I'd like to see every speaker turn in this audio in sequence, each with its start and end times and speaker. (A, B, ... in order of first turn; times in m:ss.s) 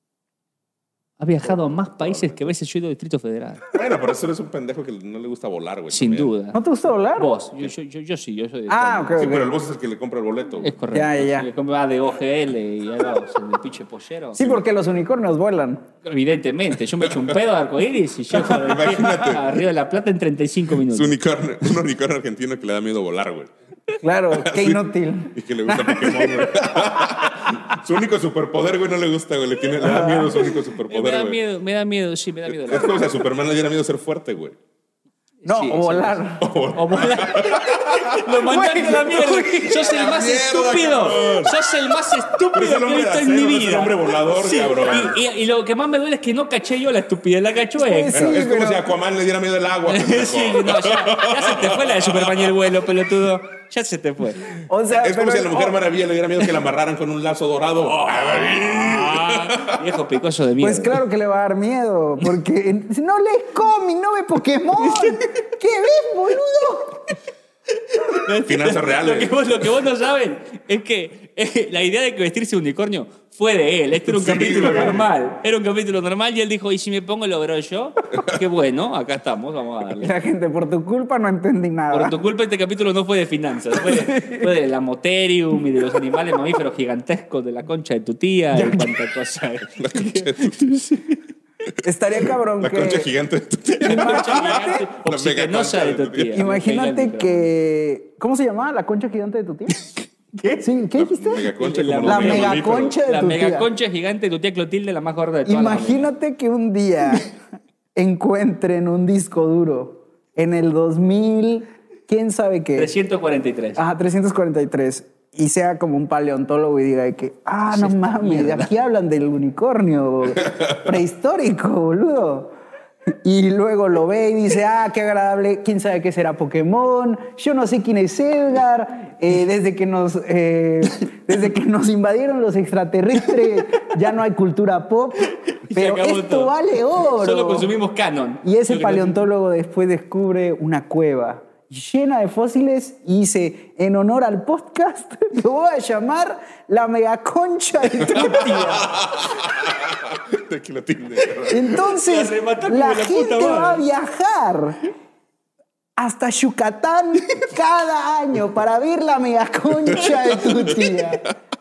0:01.2-0:03.6 A
0:01.5-0:02.5 B
0:03.7-0:06.3 B
0:05.9-0:06.6 A
0:06.5-0:07.3 C
0:07.2-0:09.3 A
0:08.7-0:09.5 C
0:09.2-0:10.7 B
0:10.6-0:14.6 A
0:10.9-0:11.5 C
0:14.3-0:15.8 C
0:16.0-0:21.2 A
0:17.0-0:17.3 B
0:18.3-0:19.5 B
0:20.8-0:23.5 B
0:24.0-0:26.6 C
0:24.3-0:31.4 B
0:29.8-0:30.6 C
0:30.9-0:33.1 A
0:32.4-0:34.6 B
0:35.4-0:36.2 A
0:35.4-0:36.5 C
0:36.4-0:38.3 B
0:36.7-0:48.2 A
0:38.5-0:39.7 C
0:39.7-0:41.6 B
0:42.5-0:45.2 B
0:47.8-0:48.9 C
0:48.1-0:52.5 B
0:49.9-0:54.6 A
0:54.6-0:55.8 C
0:54.9-0:59.8 B
0:57.9-1:01.0 A
1:00.6-1:07.1 C
1:04.8-1:05.2 A
1:07.7-1:20.1 A
1:08.4-1:09.4 B
1:14.1-1:15.0 B
1:20.0-1:22.2 C
1:21.9-1:31.2 A
1:23.8-1:24.5 C
1:28.5-1:28.9 C
1:29.8-1:30.8 B
1:31.8-1:33.1 C
1:32.2-1:36.4 B
1:33.7-1:37.5 A
1:33.8-1:34.8 C
1:36.3-1:39.8 C
1:40.3-1:40.6 A
1:40.6-1:43.7 C
1:41.0-1:43.0 B
1:41.6-1:46.1 A
1:45.4-1:47.4 C
1:48.0-1:52.9 C
1:52.8-1:53.8 A
1:53.8-2:02.5 C
1:57.7-1:58.7 A
2:03.2-2:17.7 C
2:15.3-2:19.2 A
2:18.4-2:29.0 C
2:28.0-2:31.9 B
2:31.5-2:34.8 C
2:32.0-2:33.8 A
2:36.0-2:41.3 C
2:39.9-2:41.0 B
2:40.0-2:40.7 A